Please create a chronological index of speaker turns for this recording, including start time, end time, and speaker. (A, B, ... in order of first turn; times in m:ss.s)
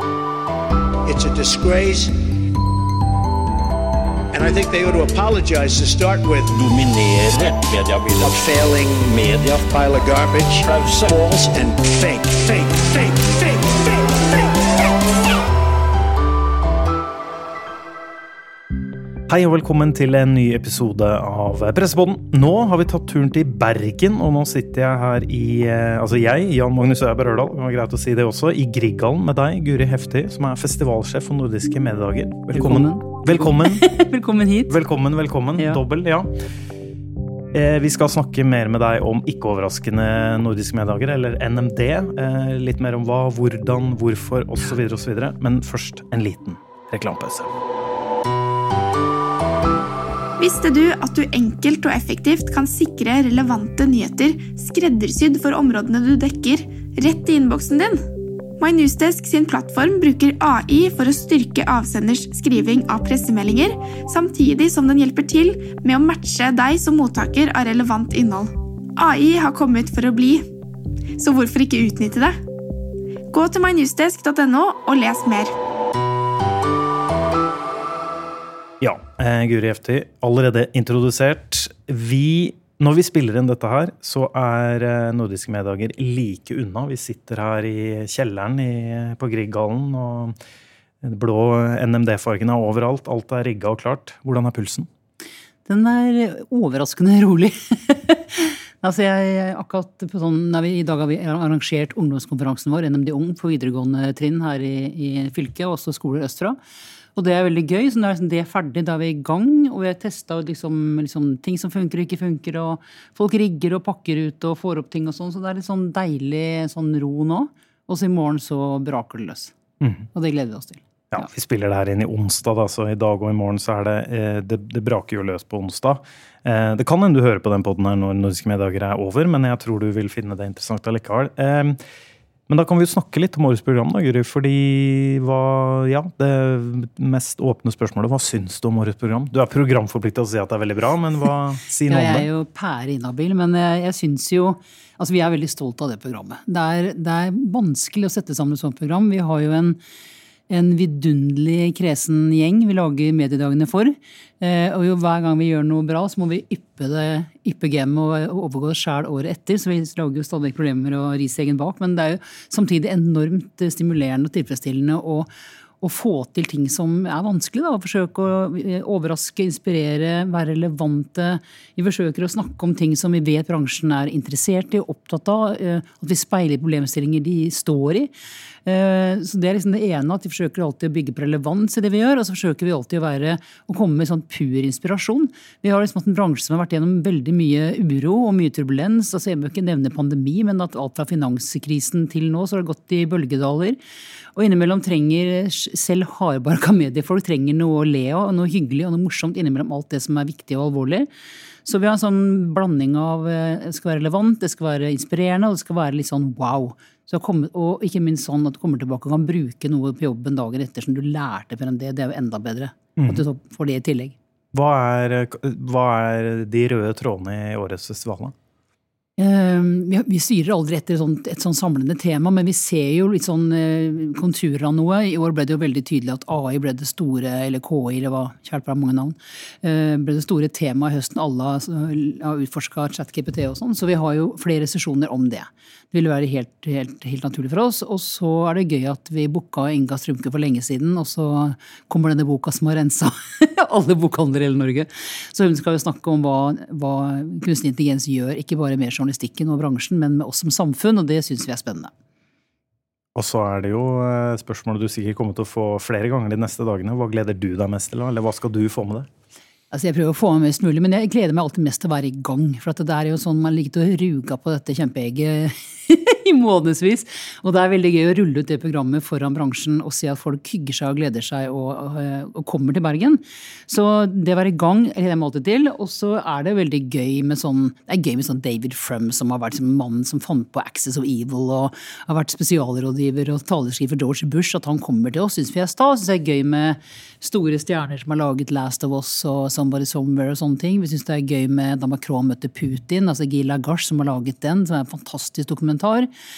0:01.0-0:02.3 A
0:04.3-0:06.7 A
0:06.6-0:08.4 B
0:08.2-0:14.5 A
0:09.1-0:09.6 B
0:10.7-0:11.1 B
0:19.3-0:33.9 C
0:32.5-0:34.8 D
0:34.7-0:36.4 C
0:35.6-0:35.8 D
0:37.5-0:47.5 C
0:50.4-0:58.0 E
0:58.6-1:10.5 E
1:11.1-1:12.4 E
1:13.3-1:15.5 E
1:18.8-1:30.4 C
1:31.0-1:34.9 C
1:35.7-1:46.6 D
1:47.1-1:59.5 D
1:59.8-2:00.1 C
2:00.1-2:01.3 D
2:01.1-2:11.8 C
2:12.5-2:22.3 C
2:21.8-2:29.8 D
2:30.5-2:45.3 D
2:45.8-2:58.1 D
2:58.6-3:13.8 D
3:14.3-3:21.1 D
3:21.6-3:34.2 D
3:33.0-3:33.2 C
3:34.5-3:38.3 C
3:39.2-4:11.9 D
4:13.1-4:19.1 C
4:19.7-4:56.1 D